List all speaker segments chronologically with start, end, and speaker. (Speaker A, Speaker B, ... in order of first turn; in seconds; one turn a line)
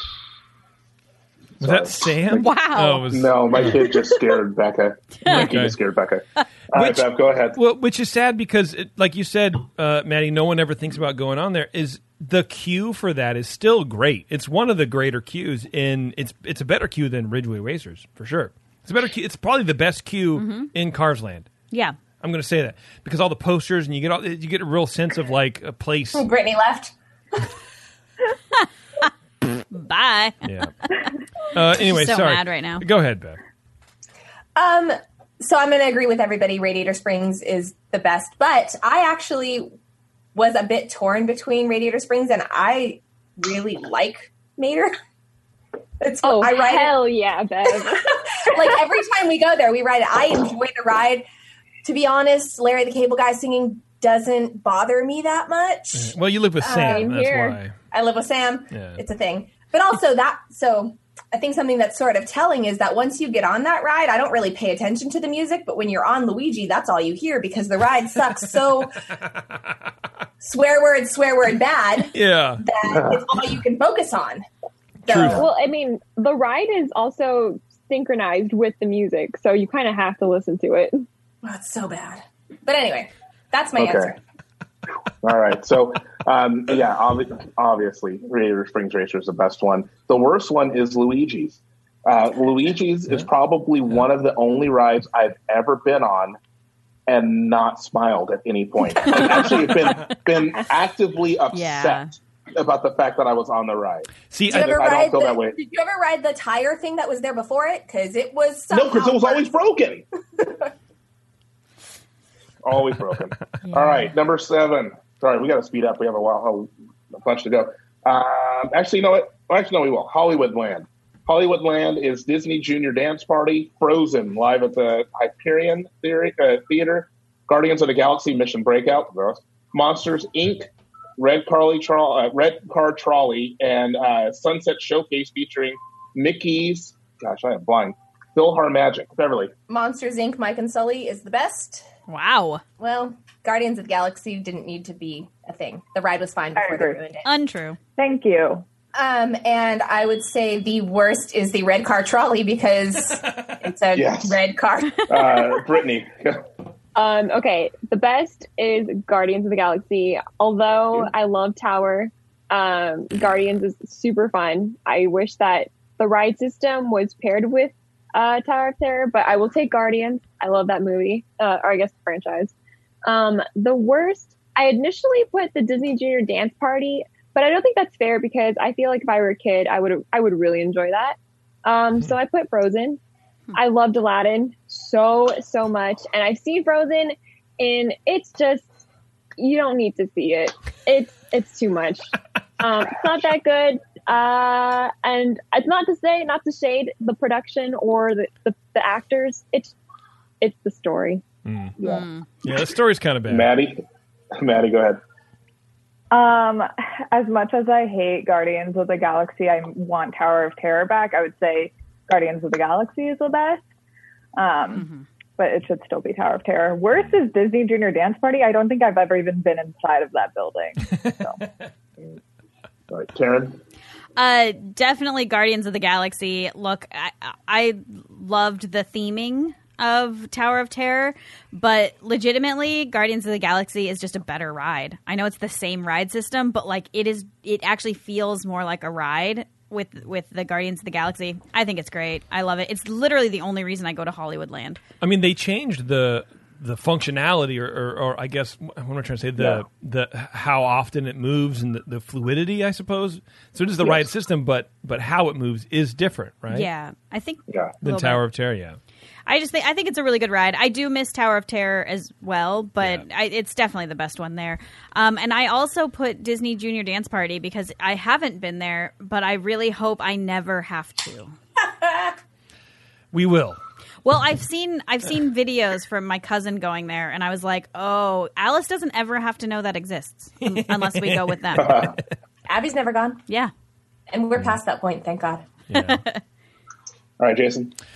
Speaker A: 1.6-2.5
Speaker B: 1.6-3.8
Speaker C: 2.3-3.1
Speaker A: 3.1-7.6
Speaker B: 5.2-5.8
Speaker B: 6.7-21.5
Speaker C: 20.4-20.7
Speaker C: 21.7-22.0
Speaker B: 22.2-26.3
Speaker D: 26.1-27.4
Speaker C: 29.7-30.5
Speaker B: 30.4-30.7
Speaker B: 31.5-33.4
Speaker C: 31.8-32.9
Speaker D: 34.6-39.7
Speaker D: 40.4-44.9
Speaker D: 46.0-47.0
Speaker E: 46.2-48.6
Speaker D: 47.8-51.3
Speaker D: 51.8-57.1
Speaker B: 55.9-57.7
Speaker E: 56.7-57.6
Speaker D: 57.9-69.0
Speaker B: 58.7-59.0
Speaker D: 70.4-74.5
Speaker B: 72.1-72.6
Speaker D: 75.1-75.4
Speaker B: 75.1-75.4
Speaker E: 75.3-81.1
Speaker D: 81.4-84.2
Speaker A: 83.8-84.1
Speaker A: 85.2-96.4
Speaker A: 97.1-105.6
Speaker C: 101.5-102.1
Speaker B: 104.3-104.8
Speaker D: 104.5-109.6
Speaker A: 108.7-110.0
Speaker A: 112.6-139.5
Speaker D: 139.7-141.8
Speaker C: 142.1-142.6
Speaker D: 142.8-147.3
Speaker F: 146.6-147.0
Speaker C: 147.2-147.8
Speaker F: 148.0-148.6
Speaker D: 148.9-155.1
Speaker A: 153.9-154.4
Speaker A: 155.1-156.4
Speaker E: 156.9-172.5
Speaker E: 173.1-183.0
Speaker E: 183.5-188.8
Speaker E: 189.4-199.7
Speaker E: 200.4-201.2
Speaker B: 201.5-201.8
Speaker A: 201.8-202.0
Speaker C: 201.8-202.3
Speaker B: 202.4-203.5
Speaker A: 203.3-205.0
Speaker F: 206.1-213.6
Speaker F: 214.4-214.8
Speaker C: 214.7-215.1
Speaker F: 215.4-221.4
Speaker A: 222.9-223.6
Speaker C: 224.2-244.8
Speaker B: 245.0-256.7
Speaker A: 253.8-254.1
Speaker C: 256.5-258.2
Speaker B: 257.8-258.8
Speaker C: 259.3-271.4
Speaker B: 273.1-273.6
Speaker C: 274.0-281.9
Speaker B: 280.4-281.9
Speaker A: 281.6-281.9
Speaker D: 282.5-283.2
Speaker D: 284.1-285.4
Speaker B: 285.7-286.0
Speaker C: 285.8-286.2
Speaker A: 287.2-287.7